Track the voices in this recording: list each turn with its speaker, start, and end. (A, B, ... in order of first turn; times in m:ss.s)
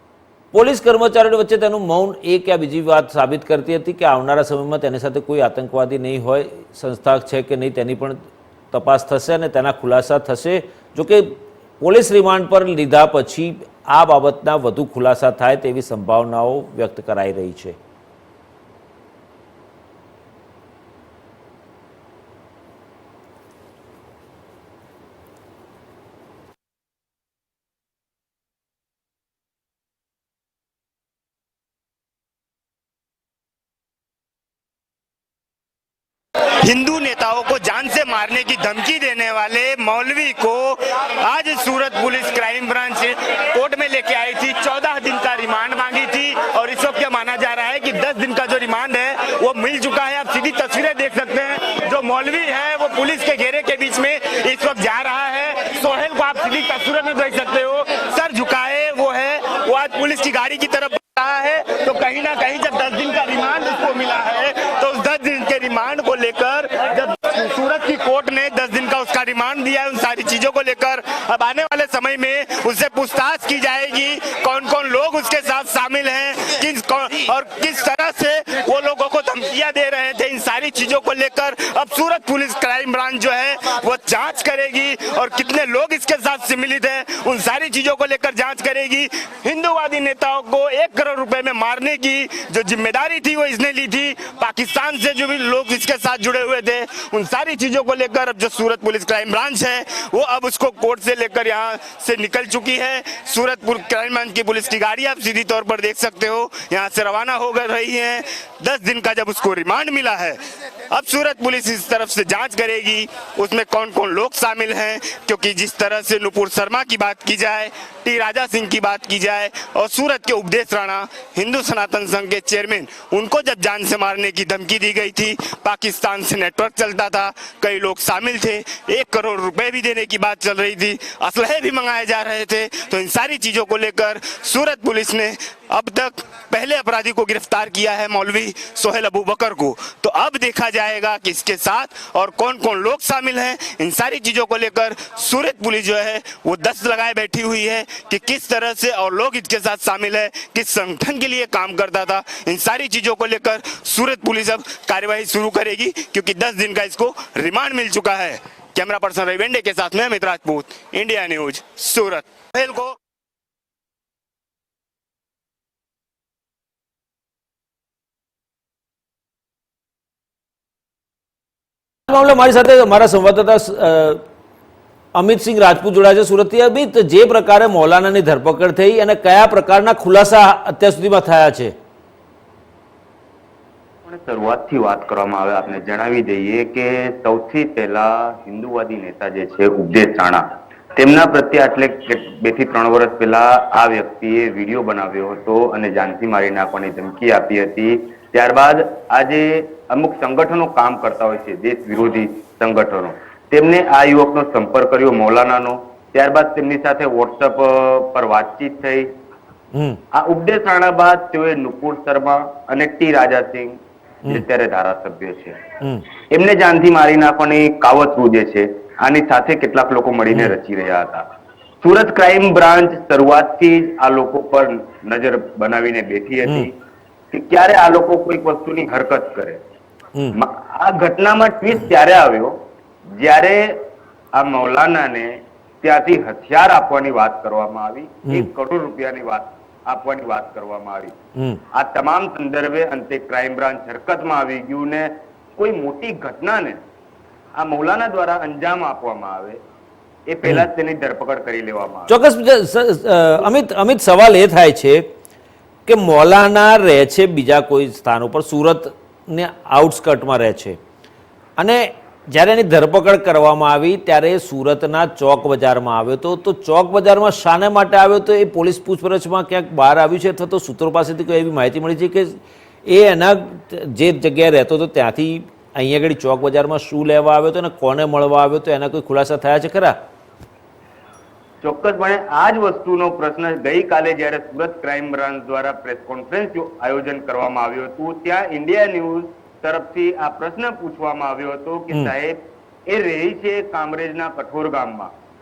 0:00.5-0:08.2 A
0:08.7-0:17.8 A
0:36.6-0:40.7 B
0:37.0-1:50.4 C
0:41.3-0:42.9 B
0:43.6-0:44.7 B
0:46.3-0:47.2 B
0:49.3-0:49.7 B
0:56.5-0:57.0 B
1:03.2-1:03.5 B
1:08.1-1:08.4 B
1:50.9-2:42.5 C
2:30.3-2:31.1 B
2:31.6-2:32.6 B
2:34.6-2:36.1 B
2:36.8-2:42.9 B
2:52.1-2:54.2 A
2:55.2-3:01.7 A
3:04.0-3:10.4 B
3:11.0-3:29.1 B
3:29.7-3:30.0 A
3:30.1-3:35.6 B
3:36.3-3:41.2 B
3:41.8-3:46.7 B
3:47.3-3:49.6 B
3:50.3-3:52.5 B
3:53.2-3:53.8 B
3:54.3-4:01.1 B
4:01.7-4:06.8 B
4:07.6-4:09.6 B
4:10.3-4:12.1 B
4:12.1-4:15.0 A
4:15.9-4:20.8 A
4:21.6-4:39.9 A
4:41.6-4:55.1 B